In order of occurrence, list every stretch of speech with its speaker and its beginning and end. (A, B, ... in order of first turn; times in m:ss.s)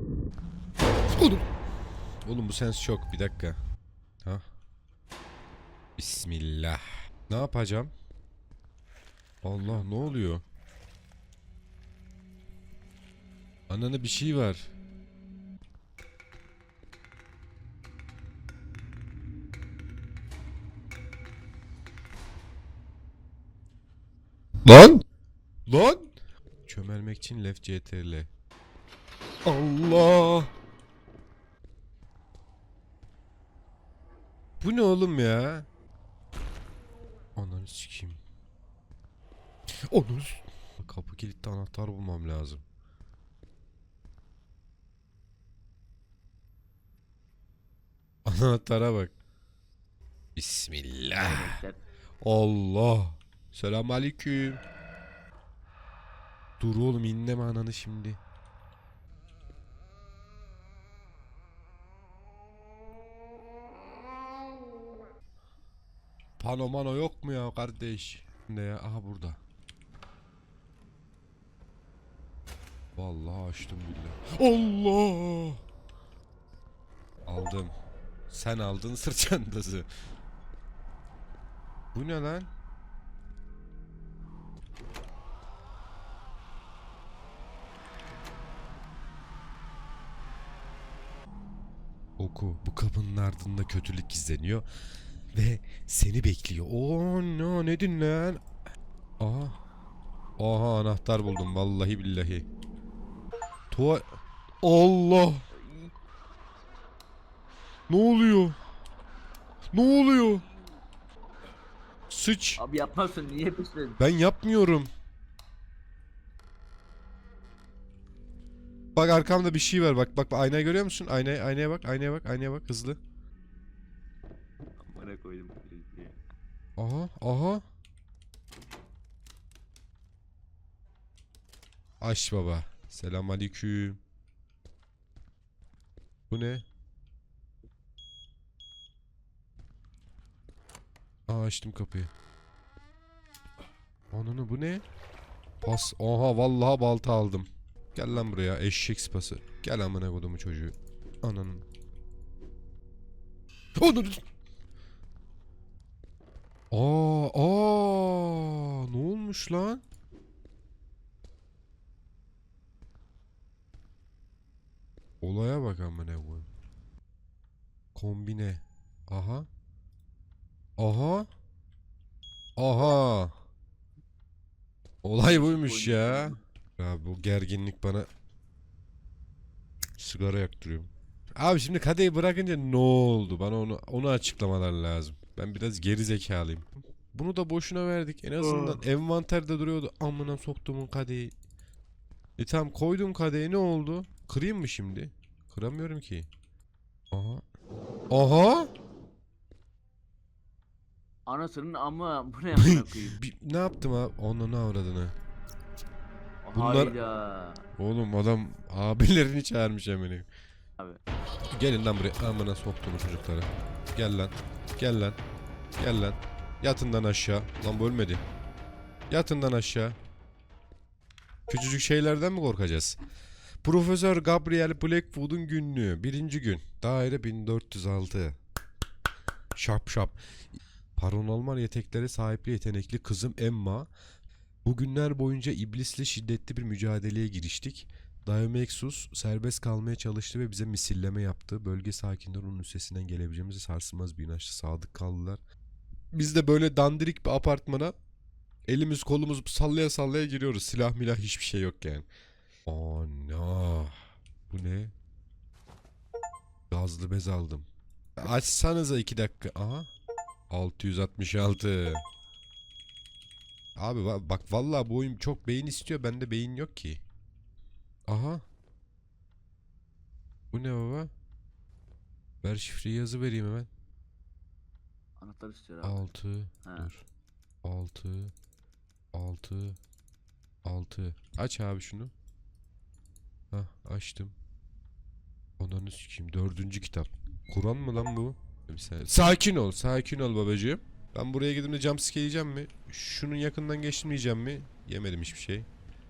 0:01.1-0:01.5 A
0:02.2-0:03.6 A
0:06.0-0:07.9 A
0:09.4-0:10.4 A
0:09.7-0:10.1 B
0:13.7-0:14.7 A
0:24.6-0:25.0 A
0:25.7-0:26.1 A
0:26.7-0:28.3 A
0:29.4-0:30.5 A
0:34.6-0:35.7 A
0:37.4-0:38.2 A
0:39.9-0:42.6 A
0:48.2-0:49.1 A
0:50.4-0:51.6 A
0:51.2-0:51.8 B
0:52.2-0:54.6 A
0:56.6-0:58.2 A
1:06.4-1:09.4 A
1:13.0-1:15.6 A
1:17.3-1:17.7 A
1:18.3-1:19.9 A
1:21.9-1:22.5 A
1:32.2-1:34.7 A
1:35.3-1:38.4 A
1:39.2-1:39.6 A
1:40.4-1:42.5 A
1:43.7-1:44.1 A
1:44.6-1:45.4 A
1:45.5-1:45.9 B
1:47.9-1:48.6 A
1:49.7-1:50.4 A
1:52.1-1:52.6 A
1:52.6-1:54.0 B
1:54.0-1:54.9 A
1:59.0-2:03.0 A
2:04.8-2:06.2 B
2:06.8-2:07.6 A
2:12.0-2:14.0 A
2:16.3-2:16.6 A
2:21.3-2:22.1 A
2:24.1-2:24.8 A
2:25.6-2:31.6 A
2:33.8-2:34.2 A
2:36.7-2:39.8 A
2:45.2-2:46.5 A
2:48.0-2:49.5 A
2:50.8-2:51.3 A
2:52.6-2:53.4 A
2:55.0-2:58.1 A
2:55.2-2:56.4 B
3:00.0-3:11.3 A
3:12.4-3:16.3 A
3:17.1-3:17.4 A
3:18.1-3:18.7 A
3:21.3-3:23.2 B
3:22.5-3:25.1 A
3:26.4-3:27.6 B
3:26.5-3:27.0 A
3:27.8-3:30.3 A
3:31.5-3:35.2 A
3:35.8-3:38.2 A
3:39.1-3:40.0 A
3:41.5-3:43.0 A
3:43.6-3:48.4 A
3:49.6-3:50.2 A
3:51.0-3:53.9 A
3:54.6-4:05.4 A
4:06.1-4:07.9 A
4:08.7-4:12.1 A
4:12.7-4:14.0 A
4:14.5-4:14.9 A
4:16.7-4:17.7 A
4:18.2-4:19.9 A
4:20.5-4:22.0 A
4:23.8-4:27.0 A
4:28.1-4:28.4 A
4:30.5-4:31.1 A
4:32.4-4:33.7 A
4:35.2-4:36.1 B
4:35.8-4:37.0 A
4:36.6-4:36.9 B
4:37.6-4:38.3 A
4:39.1-4:39.8 A
4:40.6-4:42.1 A
4:43.5-4:44.4 A
4:45.6-4:55.7 A